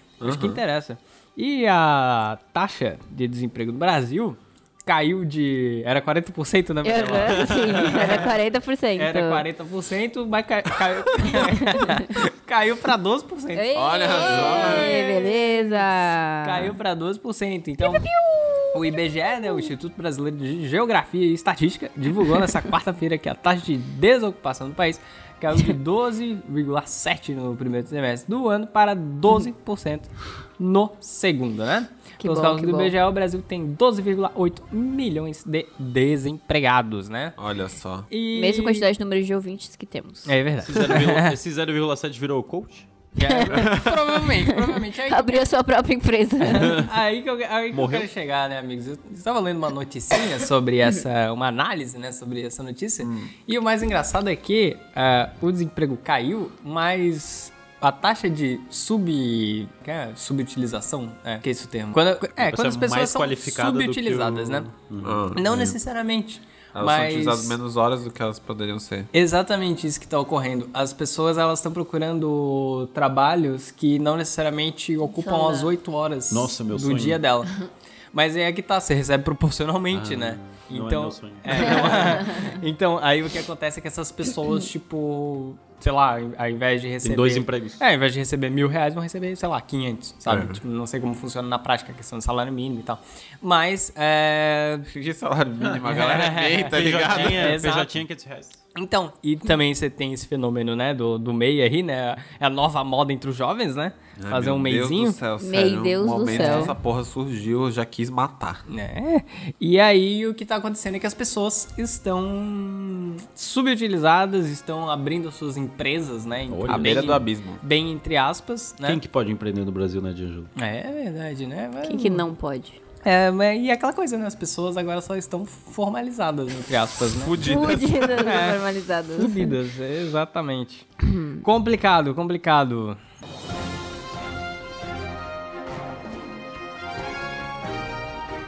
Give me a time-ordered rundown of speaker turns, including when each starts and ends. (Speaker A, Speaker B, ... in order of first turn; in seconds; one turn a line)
Speaker A: 0.2-0.6
Speaker B: 0.2-8.3
Speaker C: 6.8-9.4
Speaker D: 7.4-7.8
Speaker B: 8.9-15.7
Speaker C: 11.2-12.1
Speaker C: 13.5-16.7
Speaker A: 13.7-14.9
Speaker B: 16.4-18.1
Speaker C: 17.9-18.6
Speaker B: 18.7-37.4
Speaker C: 32.2-32.9
Speaker A: 37.4-38.1
Speaker B: 38.1-38.9
Speaker C: 38.3-40.3
Speaker B: 40.2-41.3
Speaker D: 40.6-42.9
Speaker B: 43.1-45.4
Speaker C: 43.2-43.8
Speaker A: 43.5-44.1
Speaker C: 44.4-46.9
Speaker B: 46.4-64.7
Speaker D: 47.7-48.1
Speaker A: 53.0-53.3
Speaker D: 62.4-65.8
Speaker A: 65.0-65.6
Speaker B: 65.3-67.6
Speaker A: 66.7-69.1
Speaker B: 69.1-77.5
Speaker C: 75.0-75.7
Speaker D: 76.3-77.2
Speaker B: 78.1-94.9
Speaker D: 79.9-82.0
Speaker C: 81.9-82.5
Speaker D: 87.0-87.8
Speaker A: 90.3-90.6
Speaker A: 94.9-97.7
Speaker B: 95.8-97.9
Speaker D: 96.7-98.6
Speaker B: 98.7-105.2
Speaker A: 104.2-108.6
Speaker C: 105.4-106.8
Speaker B: 106.3-106.7
Speaker B: 108.7-119.0
Speaker D: 116.5-117.3
Speaker A: 116.7-117.6
Speaker D: 118.8-120.5
Speaker B: 120.5-122.2
Speaker C: 121.8-122.8
Speaker B: 123.0-127.5
Speaker A: 127.1-128.4
Speaker C: 127.4-129.5
Speaker B: 128.1-128.6
Speaker B: 129.1-130.9
Speaker C: 131.0-131.4
Speaker B: 131.4-133.0